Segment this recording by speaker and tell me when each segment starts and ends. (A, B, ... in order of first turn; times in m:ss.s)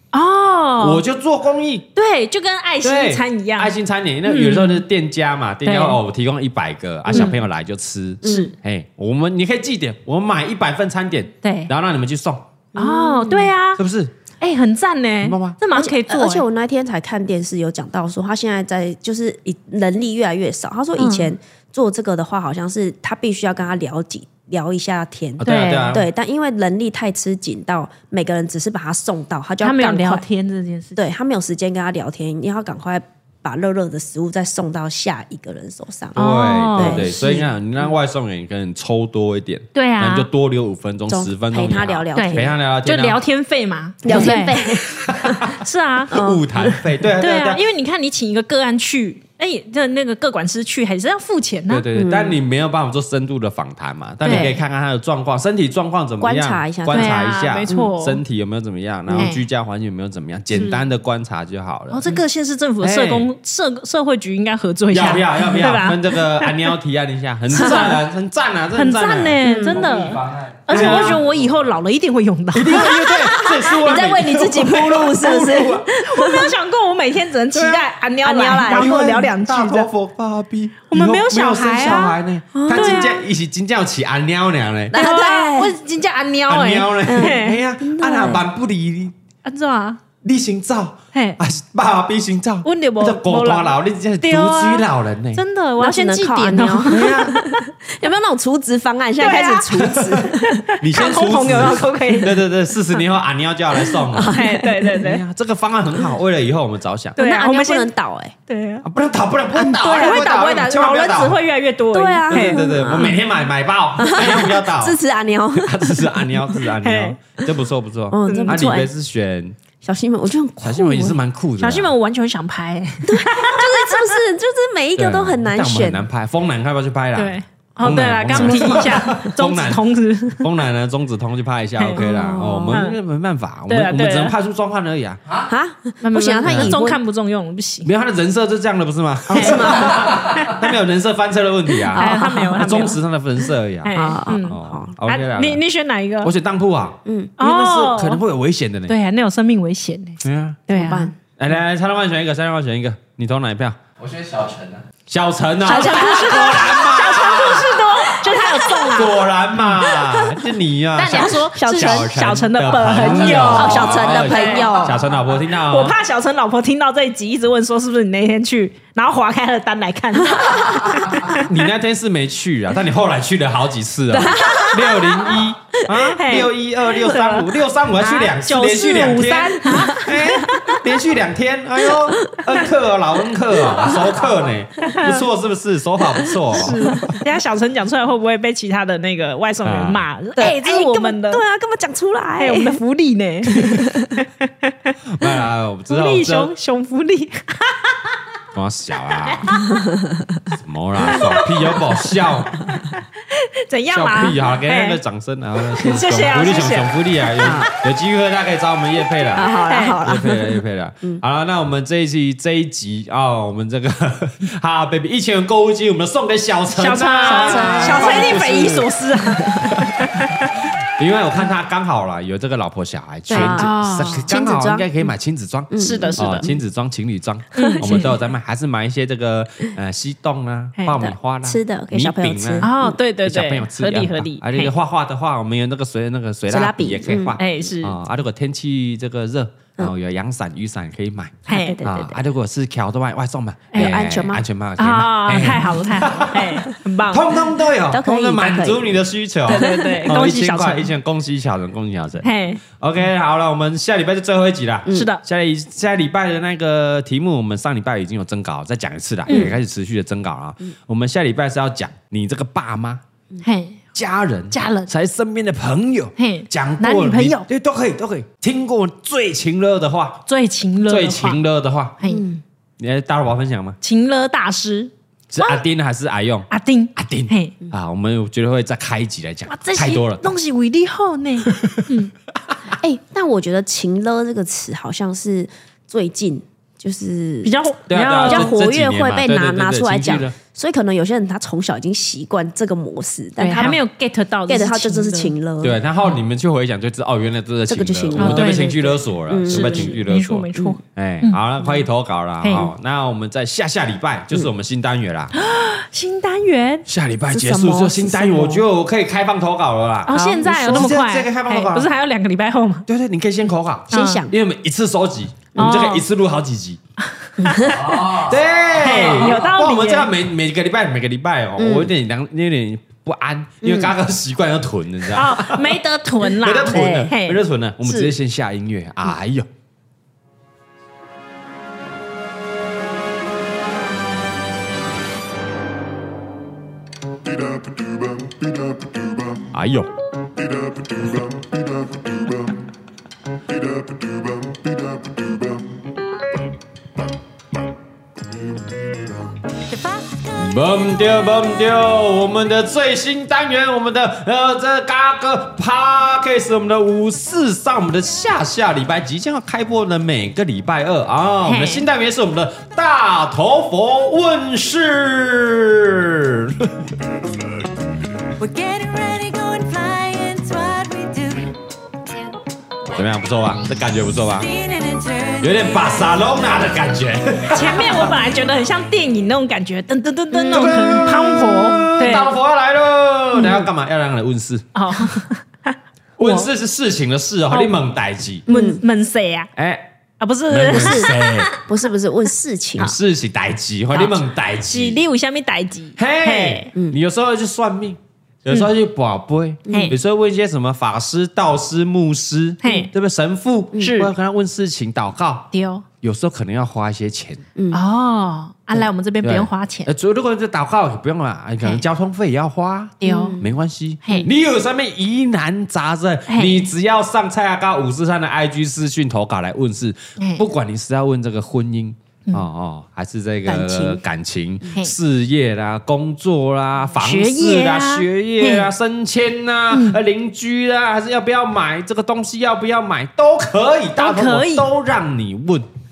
0:00.1-0:01.0 A
0:00.8-0:01.9 B
0:02.0-0:04.8 A
0:02.8-0:12.4 B
0:05.6-0:06.0 A
0:07.1-0:07.4 C
0:07.1-0:07.4 A
0:08.2-0:08.5 C
0:08.2-0:08.5 A
0:11.4-0:11.7 A
0:12.7-0:13.5 C
0:12.8-0:13.8 A
0:13.8-0:14.1 B
0:14.4-0:16.4 A
0:15.2-0:15.6 B
0:15.7-0:30.2 C
0:21.0-0:21.3 A
0:25.4-0:26.1 B
0:25.4-0:26.0 A
0:29.6-0:31.0 A
0:31.0-0:37.4 C
0:36.1-0:43.2 B
0:36.2-0:37.4 A
0:39.7-0:40.3 A
0:41.1-0:42.5 C
0:42.1-0:44.9 A
0:44.0-0:45.4 C
0:44.1-0:45.6 B
0:45.4-0:51.9 A
0:46.1-0:46.7 C
0:46.1-0:47.6 B
0:51.7-1:02.0 B
0:51.9-0:52.4 C
0:54.2-0:54.6 A
0:56.2-0:57.9 C
0:56.9-0:58.2 A
0:59.2-0:59.4 A
1:01.9-1:06.7 A
1:02.8-1:03.3 B
1:04.9-1:09.4 B
1:07.5-1:08.0 A
1:07.5-1:07.9 C
1:08.7-1:13.1 A
1:09.4-1:09.9 C
1:09.7-1:11.4 D
1:10.7-1:11.2 B
1:10.8-1:11.1 C
1:12.5-1:15.9 B
1:12.7-1:16.5 C
1:16.0-1:19.9 A
1:17.5-1:17.9 B
1:18.2-1:19.2 C
1:18.7-1:25.0 B
1:20.9-1:23.2 A
1:22.5-1:23.1 C
1:24.9-1:25.7 C
1:24.9-1:27.6 A
1:26.5-1:29.1 B
1:27.0-1:28.4 C
1:29.4-1:30.0 A
1:30.2-1:35.4 B
1:31.1-1:31.4 A
1:32.6-1:37.5 A
1:35.8-1:40.6 C
1:36.8-1:37.4 B
1:39.2-1:42.4 A
1:39.8-1:44.4 B
1:43.8-1:45.0 C
1:44.3-1:45.2 A
1:45.0-1:47.2 B
1:47.2-1:47.9 A
1:47.2-1:48.3 C
1:48.5-1:48.8 A
1:48.8-1:51.4 B
1:49.6-1:53.2 A
1:51.9-1:53.1 C
1:52.3-1:55.0 B
1:54.0-1:56.4 C
1:55.6-1:59.6 B
1:56.8-1:57.2 A
1:58.1-1:58.9 C
1:58.2-1:58.6 A
1:59.8-2:01.2 C
2:00.6-2:01.9 B
2:01.6-2:04.2 A
2:03.0-2:06.0 C
2:05.0-2:09.8 B
2:07.2-2:10.5 A
2:08.3-2:09.4 C
2:10.4-2:15.2 B
2:12.0-2:12.8 C
2:12.7-2:13.0 A
2:13.7-2:14.3 A
2:15.5-2:17.0 C
2:16.0-2:17.9 A
2:16.4-2:16.8 B
2:17.8-2:25.6 B
2:19.3-2:20.1 C
2:19.3-2:20.8 A
2:21.8-2:22.9 C
2:21.9-2:23.0 A
2:23.8-2:26.3 A
2:23.9-2:24.9 C
2:26.2-2:29.0 B
2:27.0-2:27.3 C
2:27.4-2:28.2 A
2:28.9-2:31.1 A
2:30.2-2:30.6 B
2:30.7-2:31.2 C
2:31.4-2:33.8 B
2:34.0-2:34.8 D
2:35.1-2:37.8 B
2:35.6-2:37.5 C
2:35.6-2:39.2 A
2:38.3-2:38.9 C
2:38.9-2:46.0 B
2:39.8-2:40.4 C
2:40.9-2:44.9 A
2:41.0-2:42.1 C
2:43.1-2:45.1 C
2:45.5-2:51.5 A
2:50.4-2:51.4 C
2:51.4-3:07.2 B
2:54.1-2:55.4 C
2:54.4-2:54.8 A
2:56.1-3:00.8 A
2:59.7-3:00.8 C
3:01.9-3:02.6 C
3:03.8-3:04.1 C
3:04.8-3:05.1 C
3:04.9-3:05.2 A
3:06.5-3:11.4 A
3:06.9-3:07.2 C
3:09.6-3:10.0 B
3:10.4-3:12.8 C
3:12.4-3:15.0 A
3:13.5-3:14.2 C
3:15.1-3:16.5 B
3:15.9-3:18.0 A
3:18.5-3:19.5 B
3:19.2-3:19.8 A
3:19.7-3:20.4 C
3:20.6-3:22.7 B
3:21.0-3:22.0 A
3:21.0-3:21.4 C
3:22.6-3:25.0 A
3:23.9-3:38.9 B
3:25.8-3:27.0 A
3:27.4-3:27.7 C
3:29.3-3:31.2 C
3:29.6-3:30.1 A
3:36.7-3:40.4 A
3:37.2-3:39.8 C
3:39.6-3:40.0 B
3:41.0-3:52.7 B
3:43.3-3:44.2 A
3:43.3-3:44.8 C
3:45.7-3:46.5 C
3:45.8-3:46.5 A
3:47.5-3:48.1 A
3:47.6-3:48.1 C
3:50.8-3:51.1 A
3:51.0-3:53.0 C
3:52.6-3:54.7 A
3:53.2-4:23.0 B
3:56.5-3:57.4 C
3:57.4-3:58.0 A
4:01.5-4:01.8 A
4:01.5-4:02.2 C
4:03.7-4:04.0 A
4:03.7-4:04.4 C
4:04.8-4:07.4 A
4:07.9-4:09.0 C
4:09.5-4:10.9 A
4:09.5-4:10.3 C
4:12.2-4:12.6 A
4:14.9-4:15.2 A
4:19.3-4:19.5 A
4:19.3-4:19.5 C
4:23.4-4:23.9 A
4:23.9-4:30.2 B
4:24.5-4:24.9 A
4:26.2-4:27.4 A
4:30.3-4:31.4 A
4:30.8-4:32.0 B
4:32.0-4:32.3 A
4:32.0-4:32.4 C
4:32.8-4:33.8 B
4:33.8-4:35.6 A
4:35.3-4:40.3 B
4:36.5-4:37.6 A
4:39.5-4:42.1 A
4:41.4-4:41.9 B
4:42.7-4:47.6 C
4:47.4-4:48.6 A
4:47.9-4:50.4 B
4:48.2-4:53.8 C
4:53.4-4:55.3 A
4:54.5-4:55.8 C
4:55.6-5:05.3 B
4:57.7-4:58.6 C
4:58.1-5:01.4 A
4:59.3-5:00.0 C
5:02.4-5:02.7 A
5:05.3-5:06.8 A
5:06.8-5:11.9 B
5:07.3-5:08.6 C
5:10.1-5:12.8 A
5:10.1-5:11.0 C
5:12.9-5:16.8 B
5:13.9-5:14.2 A
5:13.9-5:14.3 C
5:15.5-5:16.0 A
5:17.1-5:17.8 A
5:17.4-5:18.2 C
5:17.6-5:19.0 D
5:18.1-5:25.8 B
5:18.8-5:20.1 A
5:21.6-5:21.9 C
5:23.6-5:23.9 C
5:25.1-5:28.1 A
5:26.3-5:29.5 B
5:26.7-5:27.1 C
5:39.4-5:39.9 B
5:41.0-5:41.2 B
5:43.6-5:45.1 B
5:50.3-6:06.9 B
6:01.4-6:01.8 A
6:08.4-6:11.5 E
6:12.8-6:14.5 B
6:14.6-6:15.4 E
6:15.4-6:18.2 B
6:17.5-6:22.3 A
6:20.3-6:20.9 C
6:20.5-6:24.6 B
6:24.7-6:26.5 A
6:26.2-6:28.4 B
6:27.5-6:27.8 A
6:28.4-6:29.5 A
6:28.5-6:28.8 C
6:29.6-6:29.9 B
6:30.2-6:31.6 A
6:30.5-6:31.5 B
6:30.7-6:32.9 C
6:32.8-6:35.0 B
6:33.9-6:36.7 A
6:36.0-6:45.5 B
6:39.7-6:39.9 C
6:39.7-6:40.0 A
6:42.6-6:42.9 A
6:43.8-6:44.1 A
6:45.5-6:45.8 A
6:46.0-6:47.4 B
6:47.6-6:47.8 C
6:47.7-6:49.9 A
6:49.2-7:15.7 B
6:53.0-6:53.4 A
6:53.0-6:53.5 C
6:54.0-6:54.3 A
6:56.3-6:56.7 A
7:00.2-7:00.4 A
7:03.4-7:04.0 C
7:07.0-7:08.7 A
7:09.7-7:10.0 A
7:14.0-7:14.6 A